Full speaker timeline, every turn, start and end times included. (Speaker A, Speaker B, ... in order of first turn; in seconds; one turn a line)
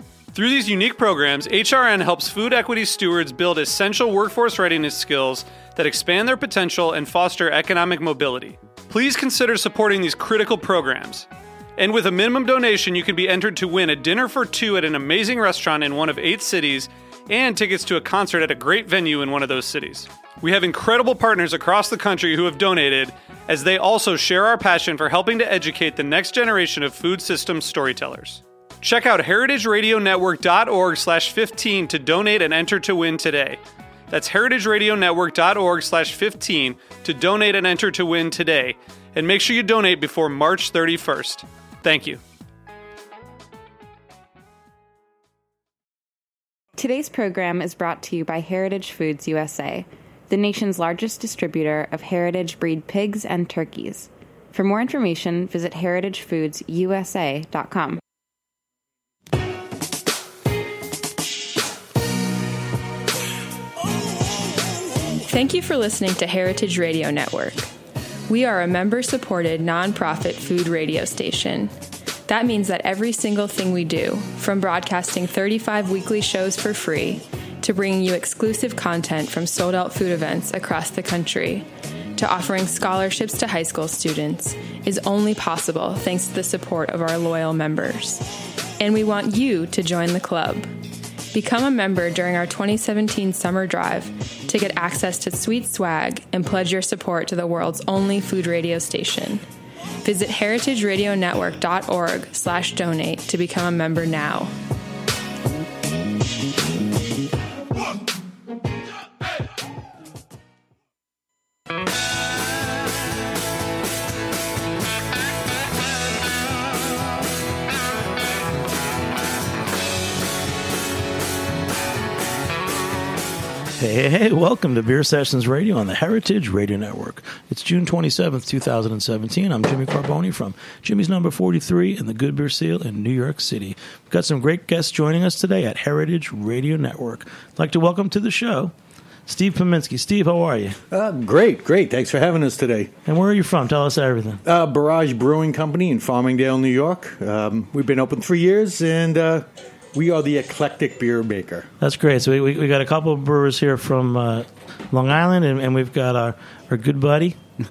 Speaker A: 0.3-42.2
Speaker B: 46.8-58.0
Speaker C: 65.3-67.7
Speaker C: 68.3-71.7
Speaker C: 72.3-88.3
Speaker C: 88.8-90.7
Speaker C: 91.3-99.4
Speaker C: 100.0-104.5
Speaker D: 123.8-138.7
Speaker D: 139.3-140.8
Speaker E: 140.9-142.9
Speaker D: 143.1-144.4
Speaker E: 144.4-151.7
Speaker D: 151.8-157.4